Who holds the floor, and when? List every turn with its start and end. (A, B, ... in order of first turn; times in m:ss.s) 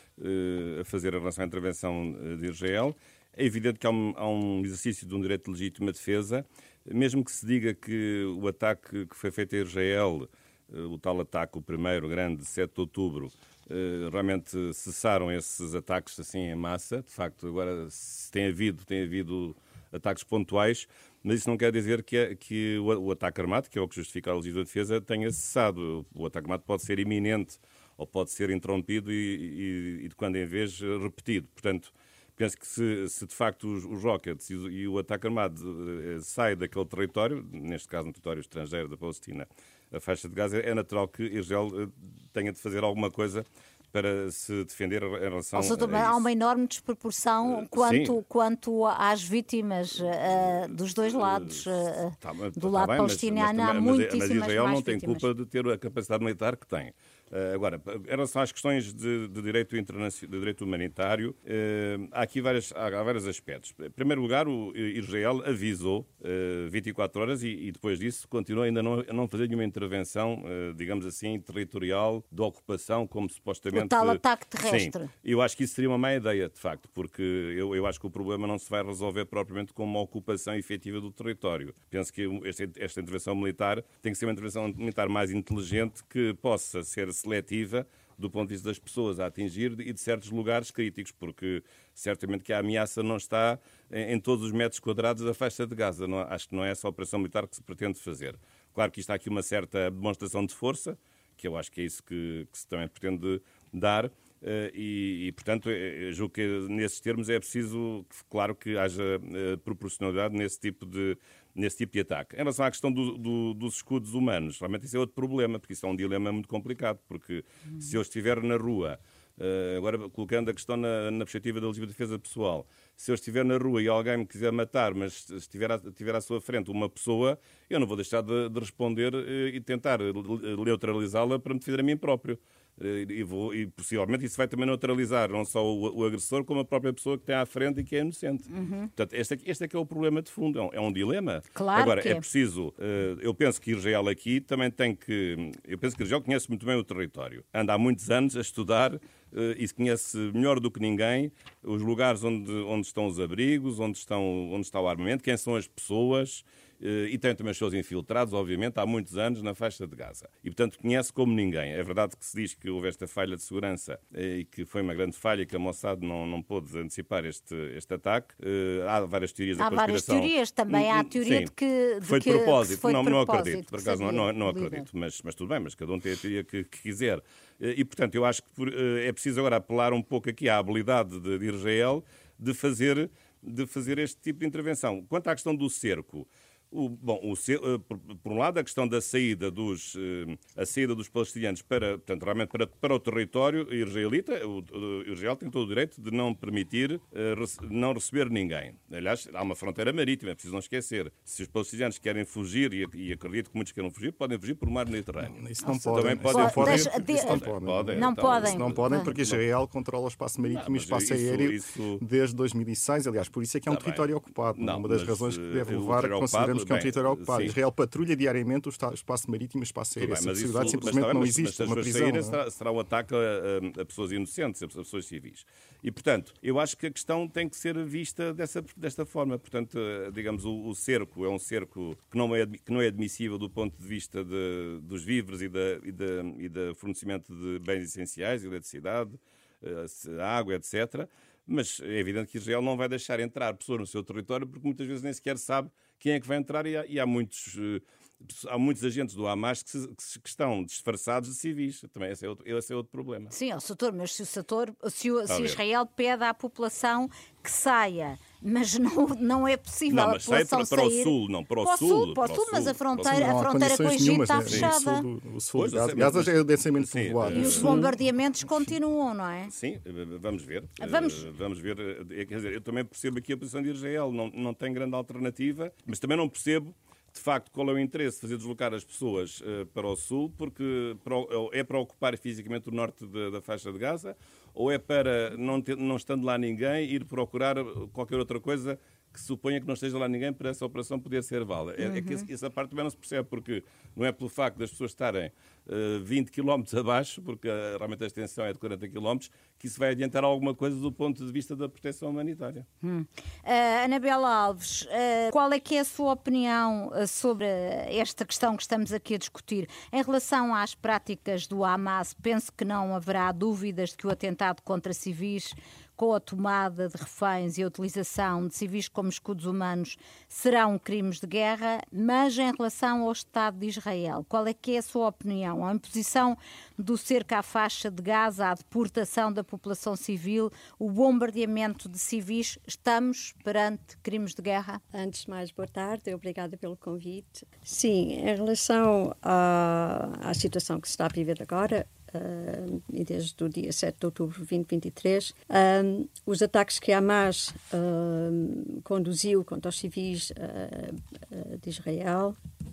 0:00.2-0:46.2 A
0:45.6-0:55.3 B
0:47.5-0:48.2 A
0:51.2-0:51.6 A
0:52.2-2:51.5 A
1:13.7-1:15.1 B
2:18.5-2:18.9 B
2:21.5-2:22.2 B
2:49.6-2:54.8 B
2:52.0-3:29.4 A
3:25.2-3:42.4 C
3:26.3-3:29.1 B
3:30.4-3:32.0 A
3:33.7-3:37.6 A
3:40.0-4:13.3 A
4:13.3-4:25.0 B
4:15.3-4:15.6 A
4:19.9-4:23.3 A
4:23.0-4:27.9 C
4:24.4-4:24.7 A
4:25.5-4:27.8 A
4:27.3-4:29.5 B
4:29.5-5:02.7 A
4:30.8-4:31.2 B
4:51.8-4:52.2 B
5:02.8-5:34.8 B
5:34.9-5:52.4 D